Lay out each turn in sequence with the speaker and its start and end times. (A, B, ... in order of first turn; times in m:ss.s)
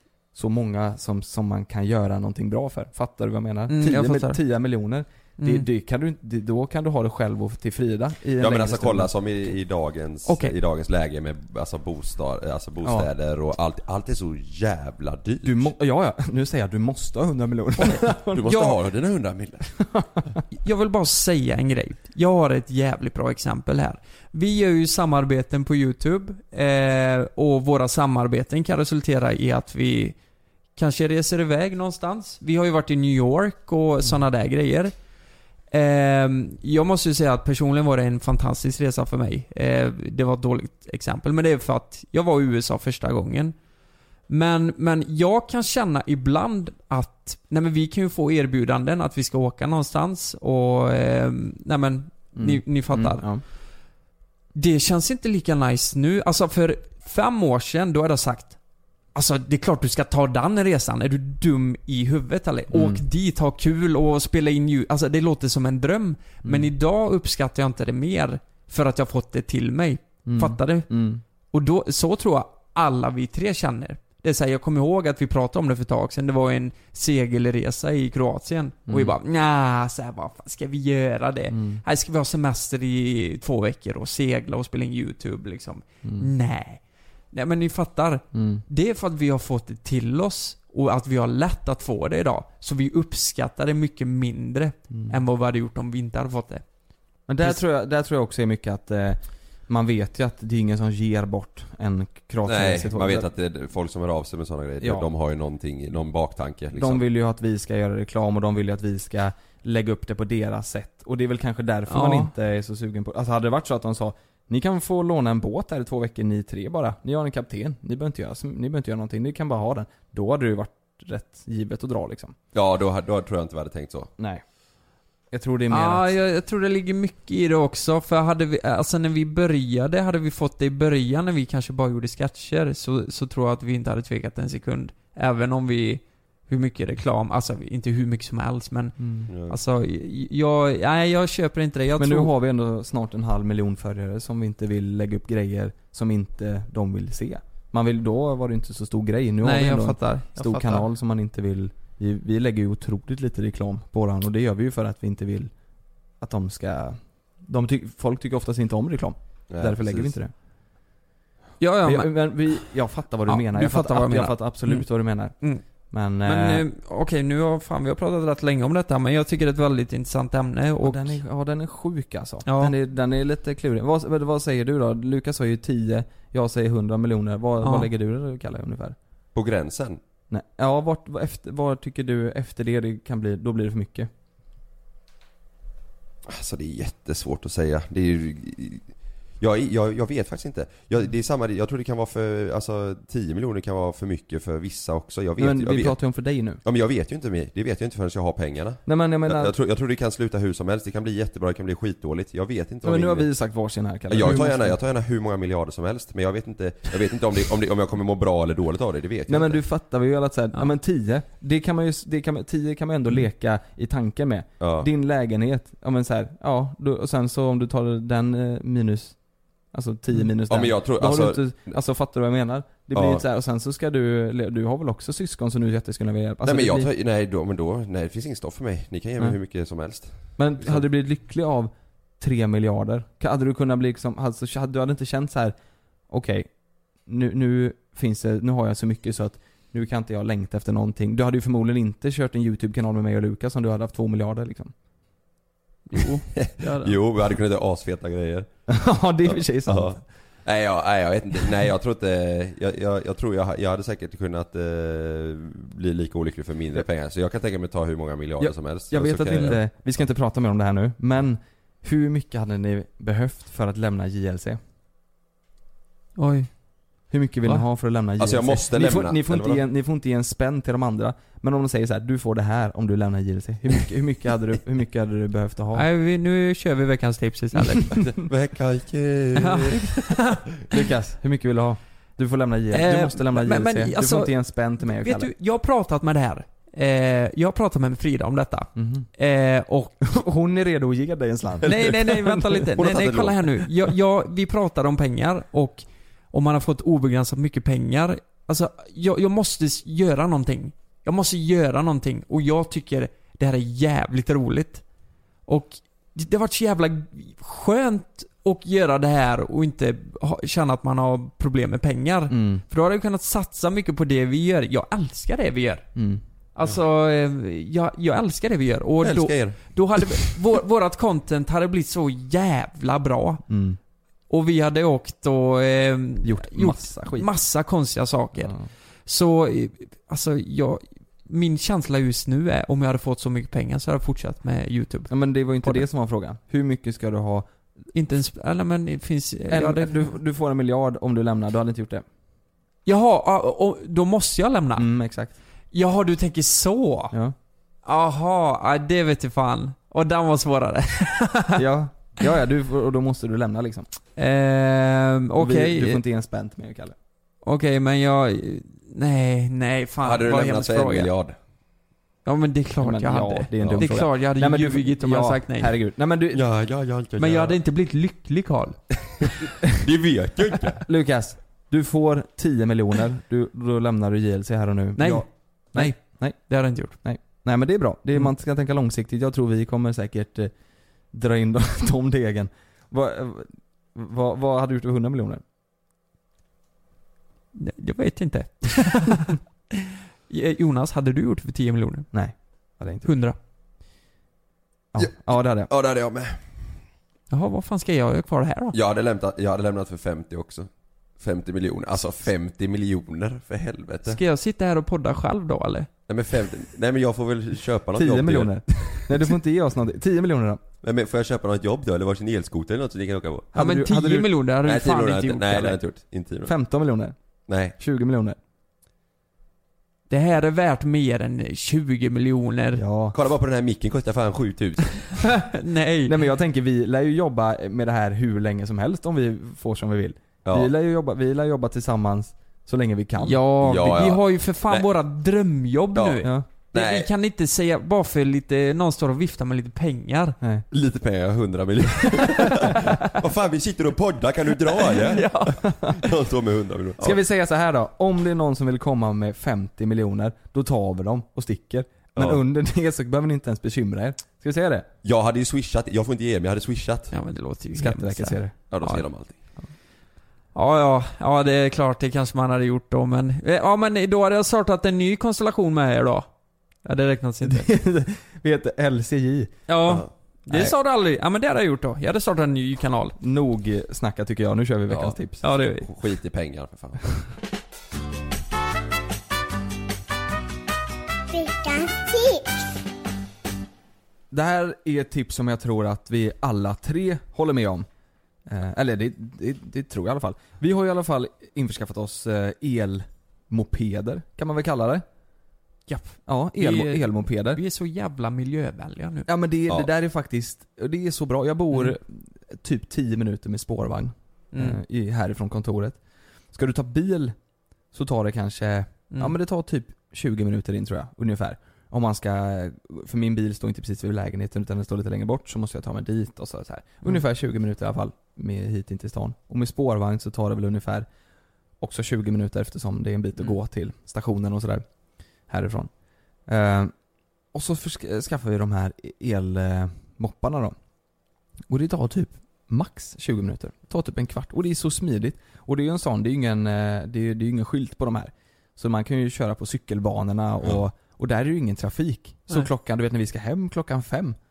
0:00.3-0:09.1 A
0:03.7-0:04.4 B
0:05.4-0:05.7 B
0:08.4-0:15.6 C
0:10.3-0:10.5 B
0:15.4-0:18.7 A
0:18.3-0:19.7 C
0:19.9-0:20.4 A
0:20.5-0:30.2 B
0:30.8-0:34.9 B
0:35.7-0:43.6 B
0:44.3-0:53.2 B
0:52.4-0:53.4 A
0:54.6-0:58.6 B
0:59.2-1:10.9 B
1:02.7-1:03.0 A
1:10.2-1:11.2 A
1:11.5-1:36.6 B
1:18.9-1:19.1 A
1:21.5-1:21.8 A
1:26.0-1:26.3 A
1:28.3-1:28.6 A
1:34.9-1:35.2 A
1:37.3-1:43.3 A
1:42.4-1:47.1 C
1:44.8-1:45.1 A
1:46.8-2:02.4 A
1:51.9-1:52.3 B
2:02.5-2:04.1 C
2:04.2-2:04.4 A
2:05.3-2:06.1 A
2:05.7-2:22.3 B
2:19.0-2:19.3 A
2:19.3-2:19.6 C
2:22.0-2:35.5 A
2:29.4-2:30.9 B
2:36.2-2:40.3 A
2:39.5-2:40.1 C
2:41.6-2:42.4 B
2:41.8-2:45.4 A
2:43.3-2:44.9 B
2:45.9-2:46.6 A
2:46.2-2:51.2 B
2:50.8-2:59.0 A
2:52.5-2:52.8 B
2:57.6-2:57.9 B
2:59.4-3:00.0 C
3:00.3-3:04.1 A
3:06.3-3:08.9 C
3:09.4-3:16.0 C
3:15.4-3:16.6 A
3:16.6-3:23.3 C
3:18.9-3:19.5 A
3:22.8-3:24.8 A
3:24.1-3:29.6 C
3:29.3-3:39.2 A
3:34.6-3:34.9 C
3:39.7-3:46.9 A
3:40.5-3:41.8 C
3:42.9-3:43.2 C
3:46.4-3:50.8 C
3:50.4-3:55.5 A
3:56.1-3:56.5 A
3:57.0-4:04.7 A
4:05.9-4:07.0 B
4:06.4-4:08.5 C
4:08.7-4:10.0 A
4:09.7-4:19.6 C
4:18.4-4:24.6 A
4:26.2-4:26.5 B
4:27.1-4:35.8 A
4:28.2-4:29.6 C
4:35.7-4:38.0 B
4:37.9-4:40.1 C
4:39.4-4:40.4 B
4:40.7-4:45.3 A
4:42.7-4:50.2 B
4:48.8-4:49.1 A
4:50.0-4:52.7 A
4:51.7-5:04.8 B
4:52.8-4:53.7 C
5:05.5-5:15.9 B
5:12.3-5:12.6 A
5:16.0-5:16.2 A
5:16.6-5:23.4 B
5:19.0-5:20.4 C
5:23.5-5:23.8 A
5:24.3-5:28.6 B
5:26.2-5:27.3 A
5:28.4-5:28.7 A
5:29.1-5:35.1 B
5:35.1-5:37.5 A
5:37.9-5:40.1 B
5:39.5-5:42.1 A
5:42.9-5:44.9 B
5:44.8-5:45.4 A
5:45.7-5:47.2 B
5:47.8-5:51.6 B
5:51.6-5:53.9 A
5:54.2-5:56.0 B
5:55.4-5:57.0 A
5:57.4-6:01.1 B
6:00.0-6:01.4 C
6:02.2-6:05.8 B
6:02.8-6:06.4 A
6:03.6-6:03.9 C
6:06.3-6:07.6 C
6:07.2-6:08.8 B
6:09.2-6:10.8 C
6:10.8-6:16.4 A
6:15.0-6:17.0 B
6:17.0-6:20.5 A
6:21.1-6:25.4 A
6:27.6-6:29.4 B
6:30.3-6:32.1 B
6:32.1-6:33.1 A
6:33.0-6:33.4 B
6:34.9-6:35.7 A
6:35.0-6:36.4 C
6:37.3-6:38.7 B
6:38.7-6:40.7 C
6:41.2-6:44.2 C
6:44.1-6:45.9 B
6:46.1-6:49.3 C
6:48.0-6:50.6 A
6:50.8-6:53.5 C
6:53.5-6:54.3 A
6:53.6-6:55.8 B
6:54.6-6:56.5 C
6:56.4-6:57.1 A
6:57.5-6:57.8 C
6:57.8-6:58.4 A
7:00.1-7:02.8 B
7:02.8-7:03.2 A
7:03.1-7:05.2 C
7:05.2-7:06.2 B
7:06.1-7:13.4 A
7:10.4-7:10.7 C
7:13.2-7:20.4 B
7:13.6-7:14.9 C
7:16.7-7:17.1 C
7:20.4-7:20.7 A
7:20.7-7:27.1 C
7:22.7-7:23.0 B
7:24.8-7:25.7 B
7:25.6-7:26.0 A
7:27.0-7:34.9 A
7:32.2-7:32.4 C
7:35.0-7:37.1 C
7:37.1-7:39.0 B
7:37.8-7:38.6 A
7:38.7-7:39.4 C
7:40.5-7:46.3 B
7:46.8-7:47.7 B
7:47.4-7:49.5 A
7:49.7-7:53.2 B
7:50.5-7:50.7 A
7:53.2-7:55.4 A
7:54.9-7:57.1 C
7:55.4-7:55.9 B
8:04.3-8:07.9 A
8:08.5-8:15.0 A
8:15.9-8:19.3 B
8:16.3-8:17.6 A
8:19.3-8:26.0 A
8:24.5-8:24.8 B
8:26.5-8:27.4 A
8:27.9-8:41.1 A
8:41.8-8:44.9 A
8:45.5-8:45.9 A
8:46.5-8:46.9 A
8:47.5-8:50.8 A
8:51.7-9:04.4 A